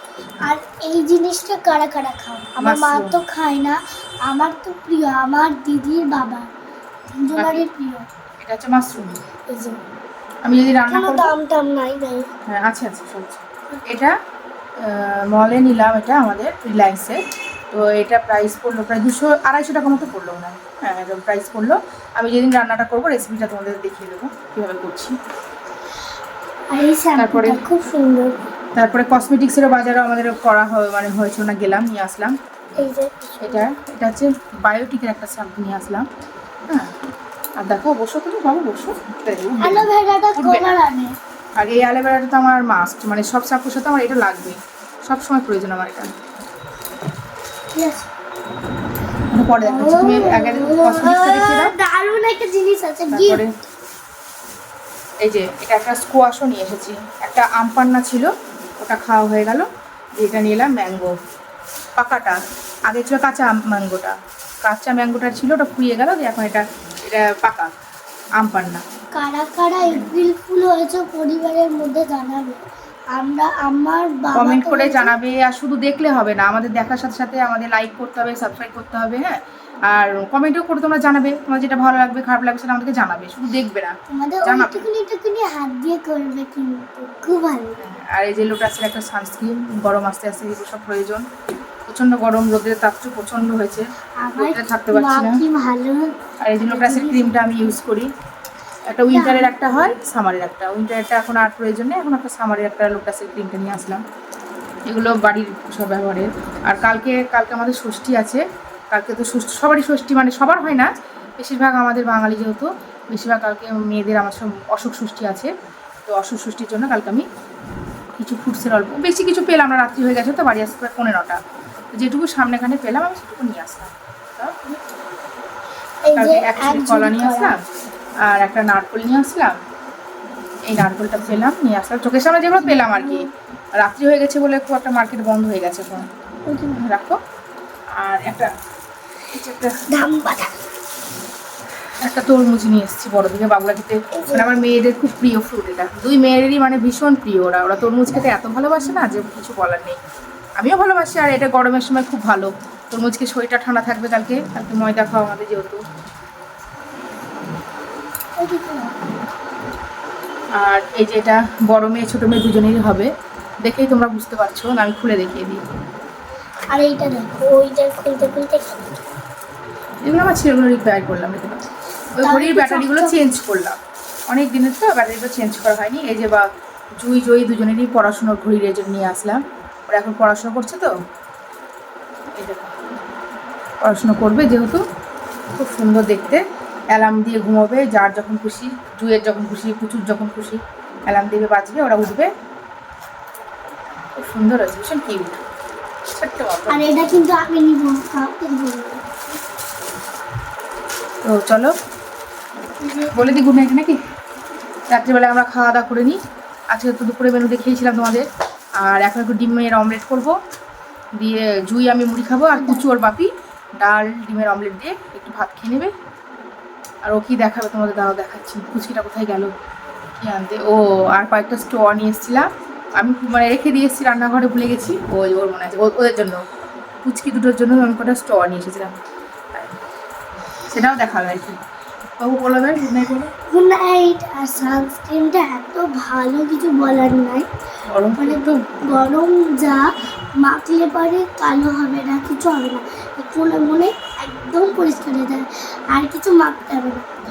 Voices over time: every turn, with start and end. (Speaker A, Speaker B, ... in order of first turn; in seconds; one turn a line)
Speaker A: 0.4-6.5
Speaker B: 2.6-3.2
Speaker A: 7.1-8.0
Speaker B: 7.3-7.6
Speaker B: 8.4-9.2
Speaker A: 9.5-9.8
Speaker B: 10.4-11.3
Speaker A: 10.9-12.3
Speaker B: 12.5-14.1
Speaker B: 14.8-17.2
Speaker B: 17.7-25.1
Speaker A: 26.7-28.3
Speaker B: 27.2-27.6
Speaker B: 28.8-32.3
Speaker A: 32.8-33.7
Speaker B: 33.4-36.0
Speaker B: 37.6-40.7
Speaker A: 39.6-41.1
Speaker B: 41.6-46.1
Speaker A: 47.7-48.1
Speaker B: 49.3-51.7
Speaker A: 49.6-53.4
Speaker B: 53.1-53.5
Speaker B: 55.2-58.3
Speaker B: 58.8-61.1
Speaker B: 62.0-67.7
Speaker B: 68.4-68.8
Speaker A: 69.2-72.6
Speaker A: 73.1-75.1
Speaker B: 74.3-79.3
Speaker B: 79.9-84.9
Speaker A: 84.1-87.8
Speaker B: 87.8-91.2
Speaker B: 91.9-93.8
Speaker A: 94.2-97.5
Speaker B: 94.4-95.4
Speaker B: 96.4-98.1
Speaker B: 98.9-104.0
Speaker A: 99.1-100.0
Speaker B: 104.9-110.9
Speaker B: 111.4-115.5
Speaker B: 116.1-117.2
Speaker B: 118.2-121.4
Speaker B: 121.9-124.8
Speaker A: 126.0-127.5
Speaker B: 126.1-127.5
Speaker B: 128.2-129.6
Speaker B: 130.7-133.2
Speaker A: 132.6-133.3
Speaker B: 133.8-136.1
Speaker A: 136.5-136.8
Speaker B: 136.8-137.2
Speaker B: 138.0-138.5
Speaker B: 139.3-139.7
Speaker A: 139.9-140.5
Speaker B: 142.0-150.0
Speaker A: 144.1-144.7
Speaker B: 150.6-155.8
Speaker A: 158.3-158.9
Speaker B: 160.6-163.1
Speaker B: 163.6-165.6
Speaker A: 166.7-169.0
Speaker B: 170.0-171.6
Speaker B: 172.2-173.8
Speaker A: 172.2-173.3
Speaker B: 174.3-176.4
Speaker B: 177.0-180.9
Speaker B: 182.4-182.7
Speaker B: 183.8-184.8
Speaker B: 185.6-186.4
Speaker B: 186.9-192.3
Speaker B: 194.2-195.4
Speaker B: 196.2-196.9
Speaker A: 196.7-199.0
Speaker B: 201.2-201.7
Speaker A: 202.8-203.4
Speaker B: 203.1-203.9
Speaker B: 204.9-206.2
Speaker B: 206.7-208.2
Speaker B: 208.8-210.3
Speaker B: 211.2-215.9
Speaker A: 212.5-212.9
Speaker B: 217.1-219.5
Speaker B: 220.2-226.4
Speaker B: 227.0-228.9
Speaker B: 230.7-231.6
Speaker B: 232.2-233.3
Speaker A: 233.4-237.5
Speaker B: 237.9-238.6
Speaker A: 238.2-239.9
Speaker A: 240.4-247.0